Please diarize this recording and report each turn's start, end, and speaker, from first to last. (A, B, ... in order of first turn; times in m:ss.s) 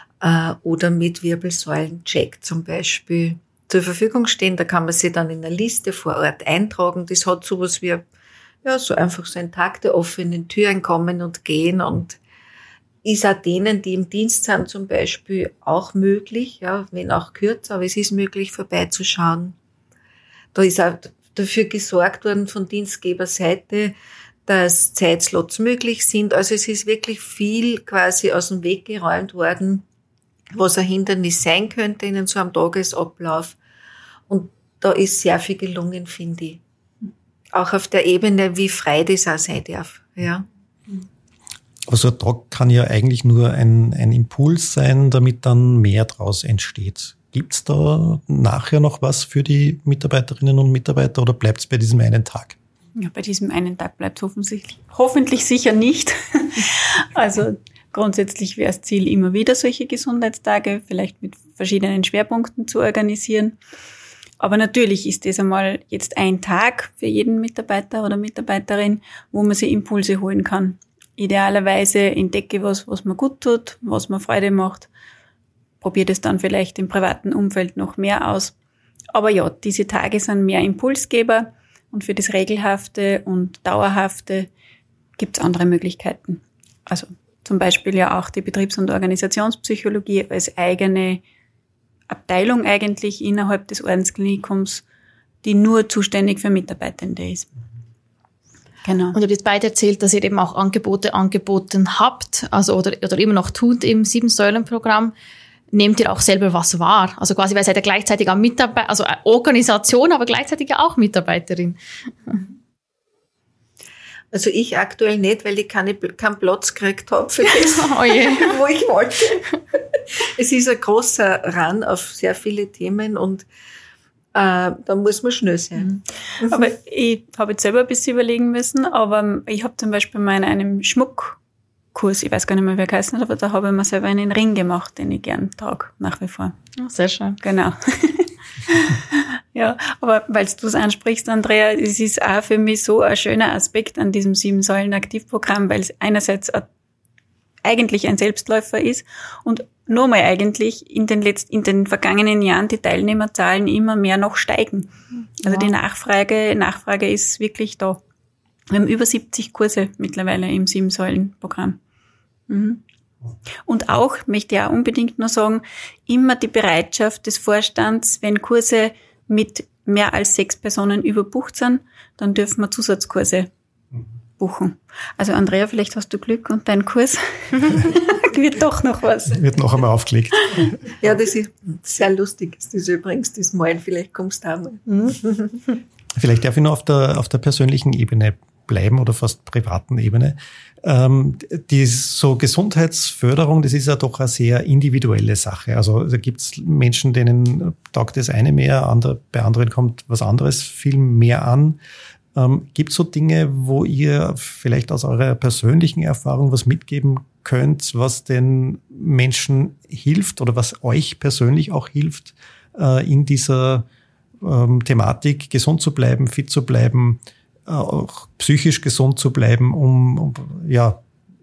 0:00.2-0:08.0 A
0:08.6-0:12.2 A
0:13.0-0:19.6 A
0:20.5-0:23.9 A
0:24.5-0:29.8 A
0:30.5-0:33.6 A
0:34.3-0:36.6 A
0:37.5-0:40.5 A
0:41.9-0:52.6 B
0:53.0-1:03.6 C
1:04.4-1:14.9 C
1:15.8-1:18.5 C
1:19.1-1:24.5 C
1:25.2-1:31.2 C
1:32.1-1:34.8 C
1:35.4-1:37.5 C
1:38.8-1:39.2 C
1:39.2-1:45.1 D
1:45.7-1:52.4 D
1:54.3-1:59.6 A
1:57.6-1:58.6 D
2:00.4-2:03.5 A
2:04.3-2:06.7 A
2:06.4-2:11.4 C
2:11.9-2:16.6 C
2:16.8-2:17.4 D
2:17.4-2:26.7 C
2:27.6-2:38.0 C
2:38.7-2:41.8 C
2:42.5-2:42.8 C
2:43.7-2:53.5 C
2:54.4-2:59.5 C
2:59.3-3:00.8 B
3:01.0-3:05.6 A
3:06.2-3:21.8 B
3:22.4-3:33.9 B
3:34.4-3:41.0 B